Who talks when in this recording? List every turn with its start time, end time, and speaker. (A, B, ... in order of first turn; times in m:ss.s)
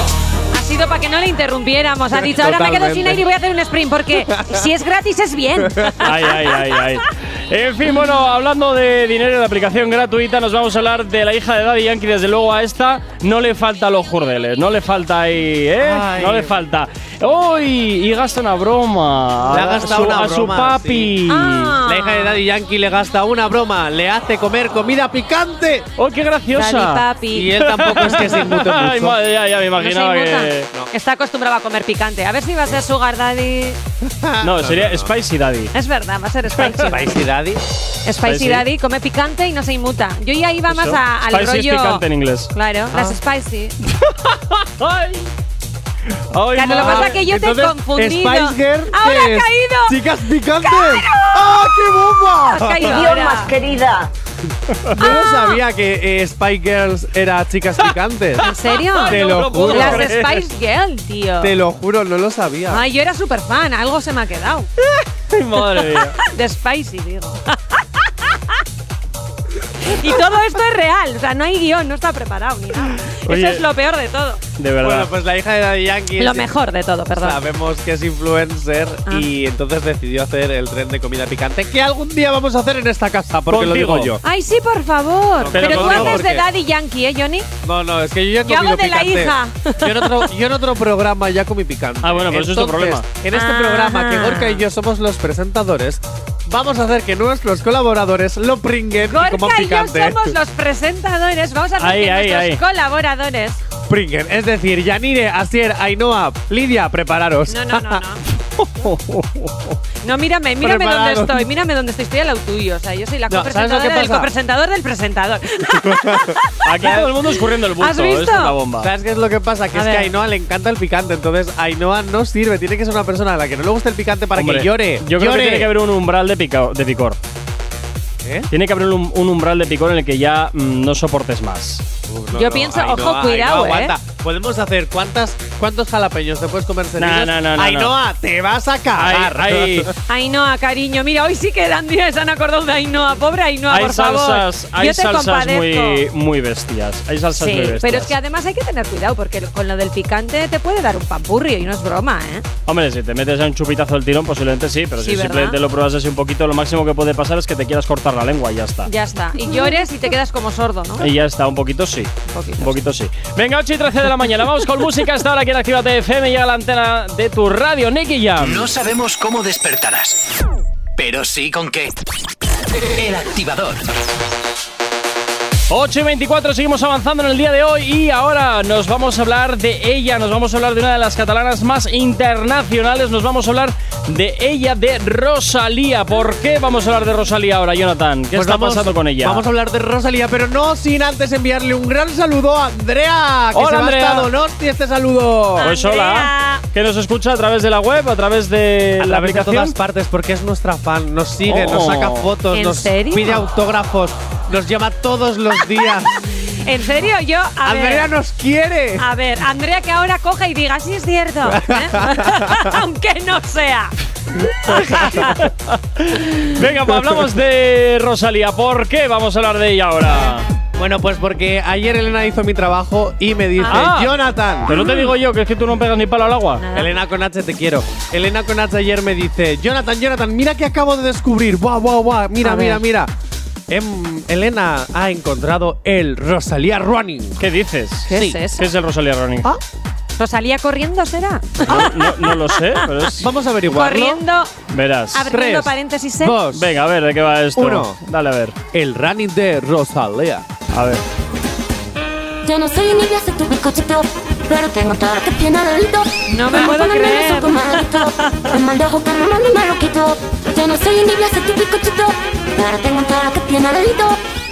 0:00.5-0:06.5 A
0:02.1-0:03.2 B
0:04.1-0:04.6 B
0:05.6-0:05.9 B
0:06.0-0:21.8 C
0:15.8-0:16.6 B
0:19.4-0:21.2 B
0:21.3-0:22.4 A
0:21.8-0:25.9 B
0:26.0-0:27.1 C
0:26.5-0:27.6 A
0:27.3-0:29.2 B
0:27.6-0:30.7 C
0:29.8-0:33.8 A
0:34.0-0:35.1 B
0:34.4-0:35.7 C
0:35.7-0:37.1 A
0:36.8-0:37.6 B
0:38.0-0:43.8 A
0:38.2-0:38.6 C
0:40.7-0:42.5 C
0:43.9-0:45.3 C
0:46.3-0:47.1 C
0:46.5-0:50.0 A
0:46.7-0:53.2 B
0:50.6-0:53.7 A
0:53.0-0:54.1 D
0:54.9-0:58.5 B
0:54.9-0:55.6 A
0:58.4-1:00.4 C
0:58.4-1:01.5 A
0:59.1-1:00.1 B
1:01.4-1:02.8 B
1:02.7-1:04.7 A
1:04.9-1:06.2 C
1:05.8-1:08.6 A
1:09.8-1:14.4 A
1:13.1-1:13.6 C
1:14.6-1:15.1 C
1:14.8-1:16.5 B
1:16.2-1:17.4 A
1:17.1-1:24.2 B
1:23.5-1:24.2 C
1:24.2-1:27.5 A
1:25.4-1:26.4 B
1:25.5-1:26.2 C
1:27.6-1:40.3 B
1:28.4-1:30.3 A
1:32.0-1:33.0 C
1:33.3-1:34.6 A
1:39.0-1:43.6 A
1:41.8-1:42.6 C
1:43.9-1:48.0 B
1:47.5-1:48.2 A
1:48.4-1:49.8 C
1:50.0-1:57.2 A
1:50.6-1:51.5 B
1:53.3-1:54.3 B
1:55.7-1:56.4 B
1:56.6-1:58.9 C
1:57.8-1:58.6 A
1:58.8-2:05.7 B
1:59.7-2:00.1 A
2:04.3-2:07.2 C
2:08.2-2:08.5 B
2:08.5-2:11.8 C
2:12.1-2:19.9 B
2:12.3-2:14.0 A
2:17.0-2:17.9 C
2:19.0-2:19.9 C
2:20.1-2:26.0 A
2:23.7-2:28.1 C
2:27.4-2:32.4 A
2:32.7-2:38.9 C
2:35.0-2:35.6 A
2:38.8-2:41.1 A
2:41.0-2:48.7 C
2:42.3-2:42.8 A
2:48.4-2:50.2 E
2:51.0-2:52.0 E
2:52.9-2:53.9 E
2:55.7-3:09.4 C
3:08.3-3:15.7 B
3:13.5-3:14.3 C
3:15.6-3:16.6 A
3:15.6-3:19.7 C
3:19.0-3:26.2 B
3:21.4-3:22.3 C
3:22.5-3:23.5 A
3:26.6-3:28.1 A
3:27.6-3:29.1 B
3:29.0-3:33.9 A
3:31.4-3:32.6 B
3:34.6-3:35.3 A
3:34.6-3:35.4 B
3:34.7-3:40.4 C
3:40.8-3:44.8 B
3:43.6-3:43.9 A
3:43.7-3:46.6 C
3:44.7-3:45.1 A
3:46.6-3:47.0 A
3:46.7-3:53.1 B
3:52.4-3:52.8 A
3:53.7-3:57.4 B
3:57.4-3:59.5 C
3:58.1-3:58.4 B
3:58.1-3:58.6 A
4:00.2-4:02.9 A
4:01.6-4:03.3 C
4:03.2-4:04.2 B
4:03.7-4:04.5 A
4:04.7-4:05.3 C
4:05.1-4:06.4 A
4:05.3-4:06.7 B
4:06.5-4:08.6 C
4:07.5-4:08.0 B
4:08.7-4:10.4 B
4:10.7-4:11.0 C
4:12.4-4:24.2 D
4:16.3-4:18.5 A